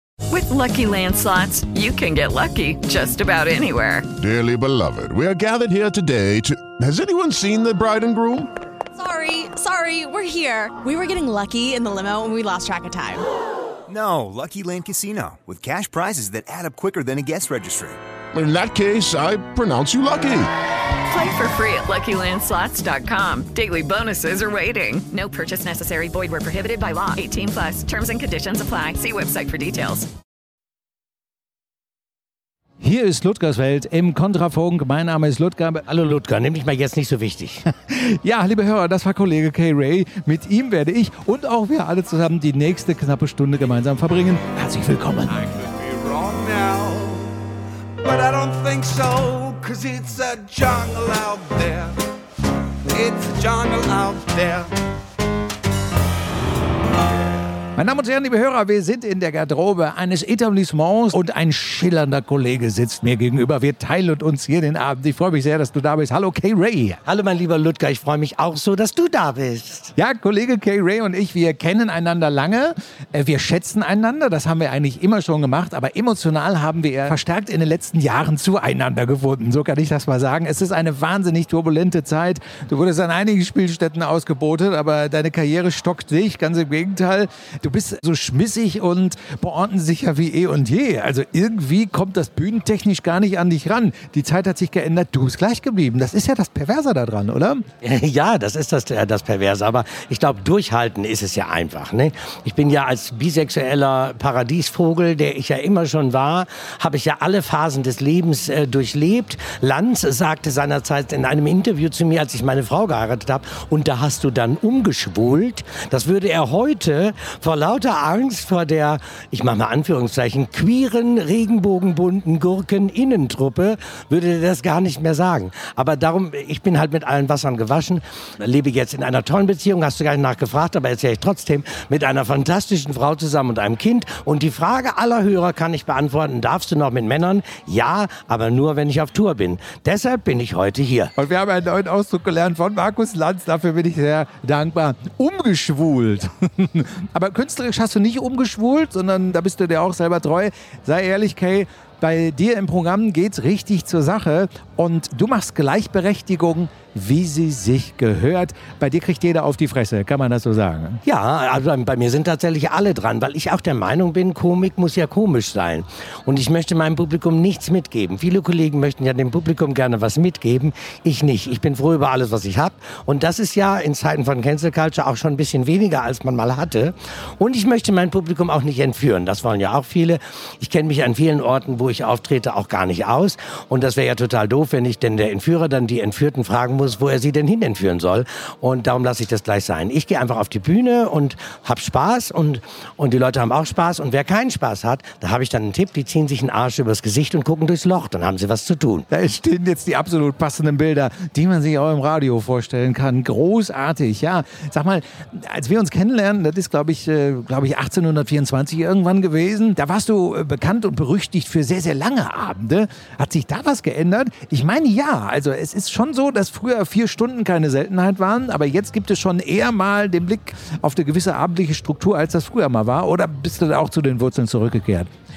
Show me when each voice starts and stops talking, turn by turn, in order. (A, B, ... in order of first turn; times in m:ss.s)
0:00.3-0:04.0 A
0:04.2-0:08.5 B
0:08.9-0:13.2 C
0:13.9-0:18.0 D
0:18.3-0:20.5 B
0:21.1-0:30.1 A
0:32.8-0:35.8 E
0:35.9-0:37.6 F
0:37.9-0:45.4 E
0:45.3-0:47.3 G
0:48.0-0:51.9 G
0:52.9-0:54.7 G
0:57.8-1:07.0 E
1:07.0-1:09.9 F
1:10.0-1:37.6 E
1:37.8-2:21.1 F
2:21.2-2:41.0 E
2:41.0-3:19.0 F
3:19.1-3:45.1 E